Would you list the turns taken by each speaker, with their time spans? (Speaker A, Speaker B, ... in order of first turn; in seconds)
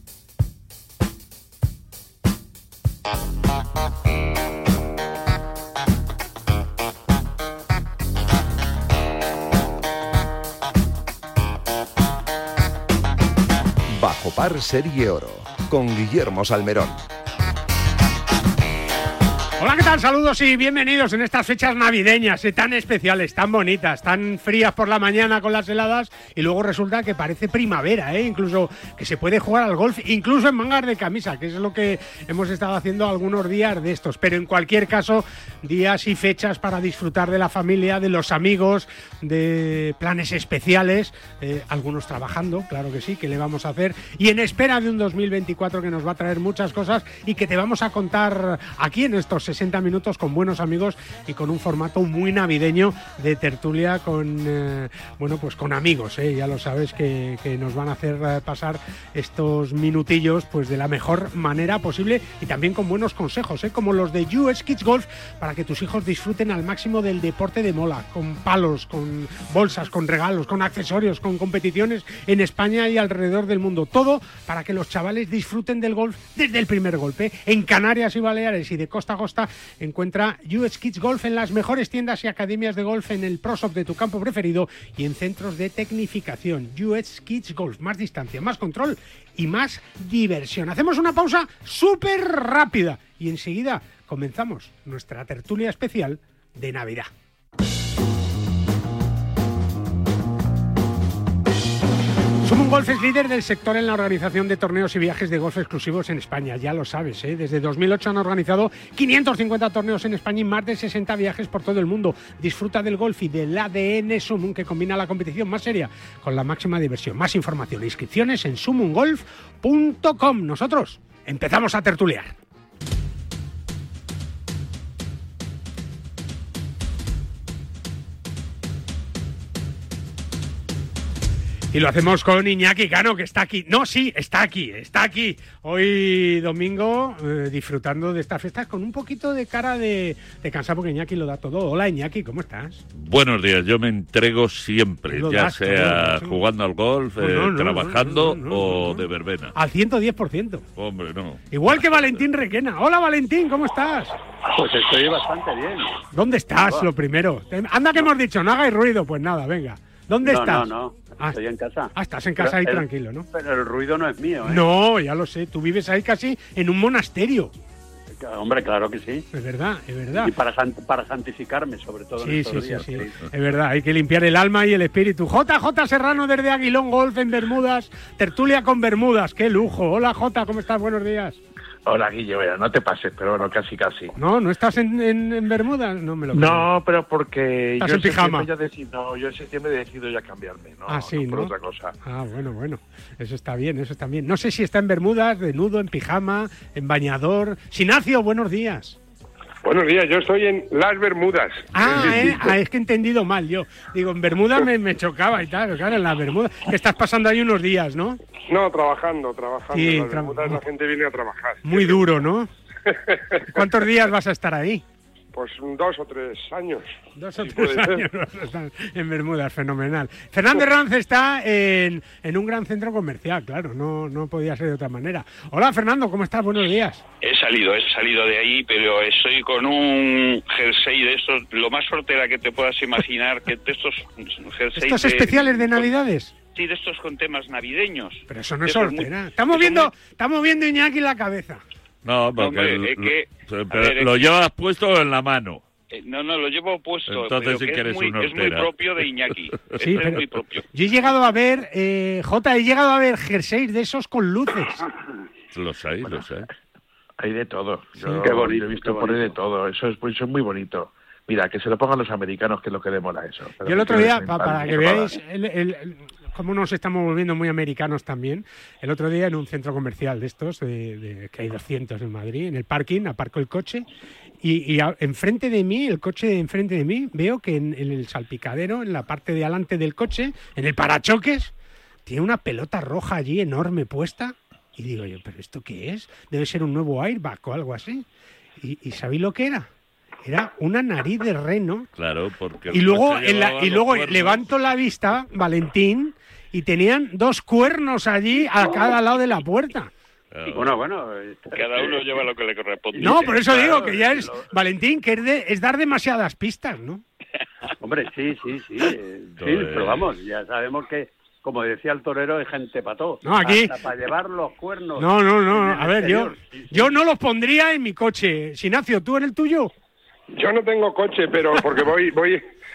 Speaker A: 13.9-17.0
Speaker B: 19.6-97.1, 102.4-122.3, 131.7-142.8, 145.1-146.4, 147.2-150.6, 151.5-154.2, 156.1-160.7, 161.9-163.3, 164.4-167.5, 169.3-170.3, 172.2-181.4, 184.1-186.7, 187.8-188.5, 190.9-199.0, 201.7-208.2, 209.7-210.6, 211.6-212.5, 213.5-214.8, 217.2-227.0, 234.7-236.3, 238.3-241.6, 249.8-254.8, 263.6-273.9, 274.4-281.5, 282.1-288.0, 288.6-289.7, 290.2-291.9, 292.7-299.9, 303.0-307.0, 313.2-313.8, 315.0-319.7
Speaker C: 142.9-149.5, 150.8-152.2, 242.0-245.6, 247.1-248.7, 255.5-256.5, 291.9-294.4, 300.3-300.8, 309.4-310.1
Speaker D: 154.5-156.0, 156.6-156.9, 160.2-164.6, 168.2-169.3, 170.1-173.2, 258.2-259.3, 300.5-302.0, 302.9-303.9, 307.8-316.9
Speaker E: 181.8-184.1, 186.3-191.9, 257.2-265.1
Speaker F: 199.6-202.5, 208.5-212.0, 212.9-213.4, 215.3-218.0, 320.3-322.4
Speaker G: 227.2-235.9, 236.5-239.9, 242.3-244.2, 245.9-250.7, 301.5-303.9